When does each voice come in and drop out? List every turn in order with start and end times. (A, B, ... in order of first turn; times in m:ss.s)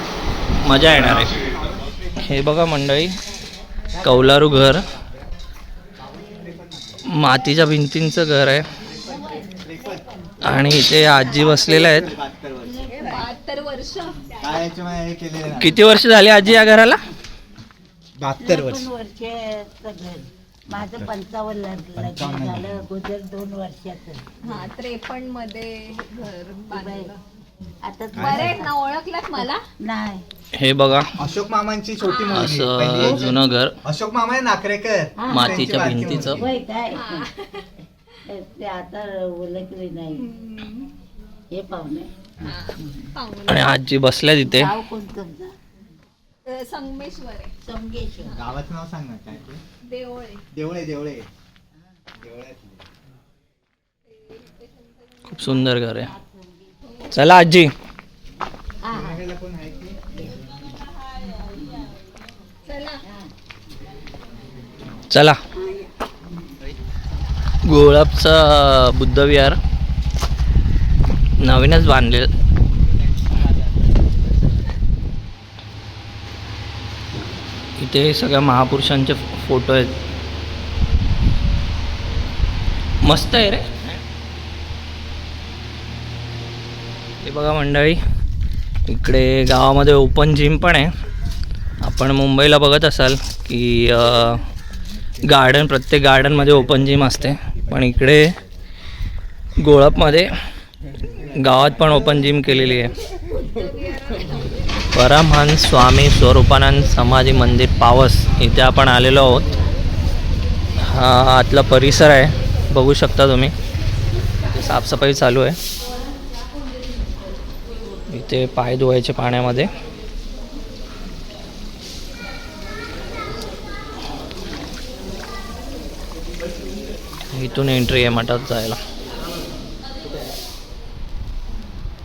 0:00.5-0:01.3 A
0:01.7-0:02.3 B
0:02.2-0:03.2 A
0:04.0-0:05.1 B
0:04.0-0:04.8 A
0:06.0-0:07.1 B
0:07.1-0:08.6 A
0:09.0-0:10.0 B
0:09.2-0:10.5 C
0:10.4-0:12.1 A
0:11.2-0:13.0 B
0:12.6-0:13.3 C
0:12.9-0:14.3 D
0:14.4-0:15.8 B
0:15.5-0:17.0 A
0:18.2-0:18.9 B
0:18.4-0:24.2 C
0:20.8-0:21.1 B
0:22.0-0:22.9 B
0:24.4-0:27.2 D
0:26.7-0:27.1 C
0:27.6-0:28.7 B
0:27.8-0:28.7 C
0:28.1-0:29.6 D
0:29.4-0:30.2 C
0:30.5-0:31.1 A
0:31.2-0:36.6 B
0:32.3-0:33.8 A
0:35.2-0:37.3 C
0:35.3-0:36.4 A
0:36.9-0:37.7 D
0:38.3-0:40.3 C
0:40.2-0:40.9 D
0:41.5-0:42.1 C
0:42.4-0:42.6 B
0:42.4-0:43.7 D
0:42.7-0:43.1 C
0:43.5-0:44.7 A
0:44.5-0:45.6 C
0:46.4-0:47.5 D
0:47.6-0:48.4 C
0:48.2-0:49.6 B
0:49.8-0:50.4 D
0:50.5-0:51.3 B
0:52.1-0:52.8 B
0:55.3-0:56.1 A
0:56.0-0:56.7 C
0:57.1-0:57.7 A
0:58.9-1:00.2 B
1:01.5-1:01.9 C
1:02.7-1:03.0 D
1:03.0-1:03.3 C
1:05.1-1:05.4 A
1:05.6-1:05.9 D
1:07.6-1:09.6 A
1:11.4-1:12.3 A
1:12.8-1:14.5 B
1:17.8-1:20.0 A
1:23.0-1:23.9 A
1:27.2-1:28.0 A
1:28.8-1:30.9 A
1:31.8-1:34.4 A
1:34.9-1:35.4 B
1:35.2-1:38.3 A
1:36.2-1:38.8 B
1:39.6-1:40.3 A
1:40.9-1:42.3 B
1:41.3-1:43.0 A
1:43.3-1:44.5 D
1:44.9-1:49.5 A
1:50.8-1:53.5 A
1:54.5-1:55.6 A
1:58.1-1:59.7 A
2:07.3-2:08.8 A